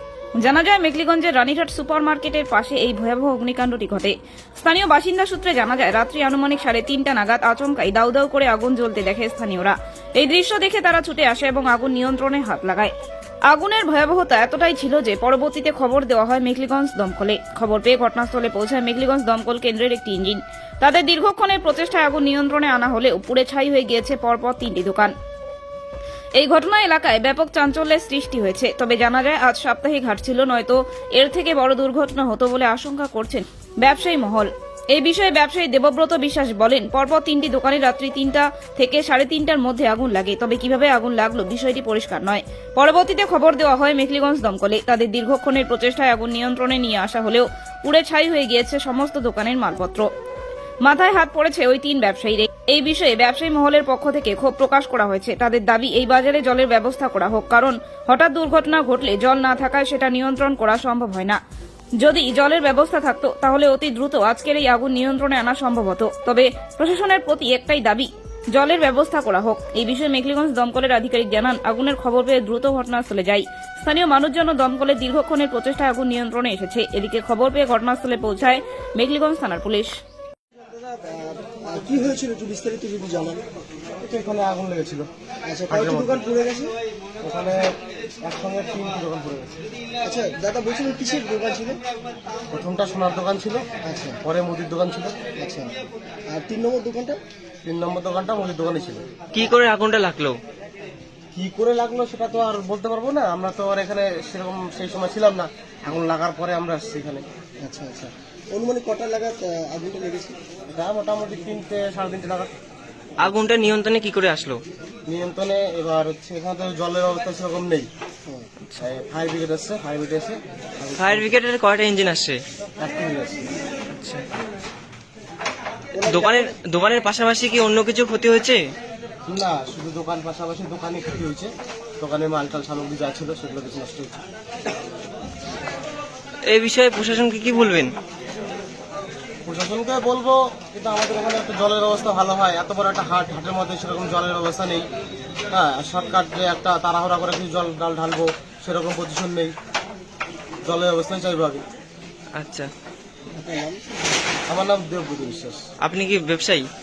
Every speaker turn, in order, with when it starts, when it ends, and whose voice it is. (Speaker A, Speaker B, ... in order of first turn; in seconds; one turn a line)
Speaker A: 0.4-12.9
Speaker A: 13.5-25.1
Speaker A: 26.4-50.1
Speaker A: 50.9-61.4
Speaker A: 62.0-79.9
Speaker B: 80.6-83.4
Speaker C: 84.0-85.1
Speaker B: 85.5-86.8
Speaker C: 85.7-86.2
Speaker C: 87.2-87.7
Speaker C: 88.2-89.6
Speaker B: 90.0-91.8
Speaker C: 92.5-93.7
Speaker B: 93.8-94.2
Speaker C: 94.2-95.2
Speaker B: 95.4-95.7
Speaker B: 96.3-97.2
Speaker C: 97.6-99.0
Speaker D: 99.3-100.4
Speaker C: 101.3-107.2
Speaker B: 107.6-110.4
Speaker C: 110.7-112.5
Speaker D: 113.2-114.6
Speaker C: 115.1-117.9
Speaker C: 118.8-121.3
Speaker D: 121.0-122.4
Speaker C: 122.8-123.5
Speaker D: 124.0-124.2
Speaker B: 126.0-126.5
Speaker D: 126.0-128.6
Speaker C: 129.3-134.2
Speaker D: 136.5-137.9
Speaker C: 139.5-144.8
Speaker C: 145.5-149.5
Speaker C: 150.7-151.7
Speaker D: 152.4-152.7
Speaker B: 153.3-154.3
Speaker C: 154.5-155.6
Speaker D: 155.8-156.7